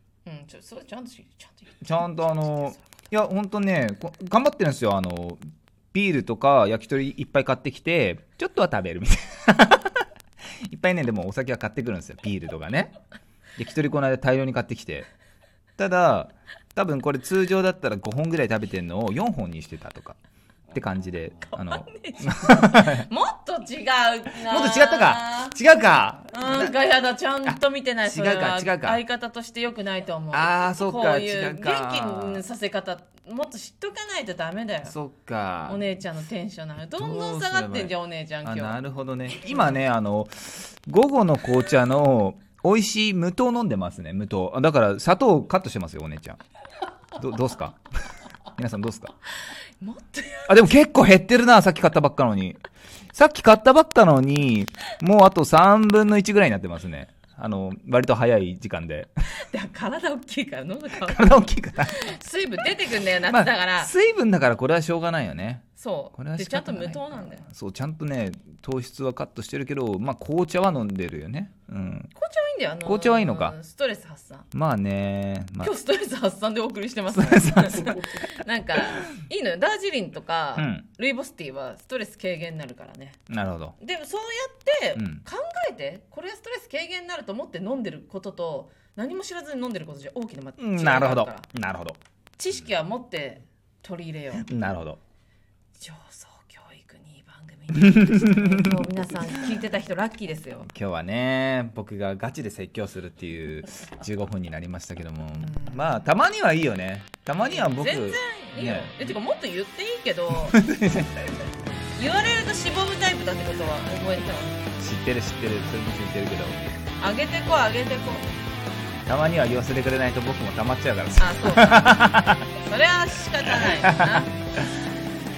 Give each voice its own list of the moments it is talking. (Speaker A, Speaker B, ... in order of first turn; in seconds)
Speaker A: 0.3-3.0, 21.4-25.6, 26.3-35.0, 35.7-38.8, 39.4-39.8, 49.8-50.7, 59.4-63.9, 65.8-67.5, 72.2-74.5, 75.6-83.2, 83.8-91.5, 92.4-94.5, 95.8-100.7, 105.4-106.0, 107.4-110.6, 112.0-114.6, 117.0-118.3, 121.2-124.3
Speaker B: 1.8-5.4, 5.9-10.1, 10.7-12.9, 13.6-15.1, 15.8-20.2, 20.7-23.1, 24.4-26.7, 27.4-29.0, 30.3-32.4, 34.9-35.8, 36.9-46.4, 47.2-47.9, 48.5-49.1, 50.5-52.6, 53.1-59.1, 61.0-62.1, 63.3-72.1, 72.8-73.6, 74.5-75.7, 77.1-78.2, 80.6-80.9, 83.3-83.8, 85.0-85.2, 90.6-92.0, 94.4-95.0, 98.0-98.8, 100.7-109.1, 110.4-111.3, 114.8-116.6, 119.1-122.5, 123.4-124.7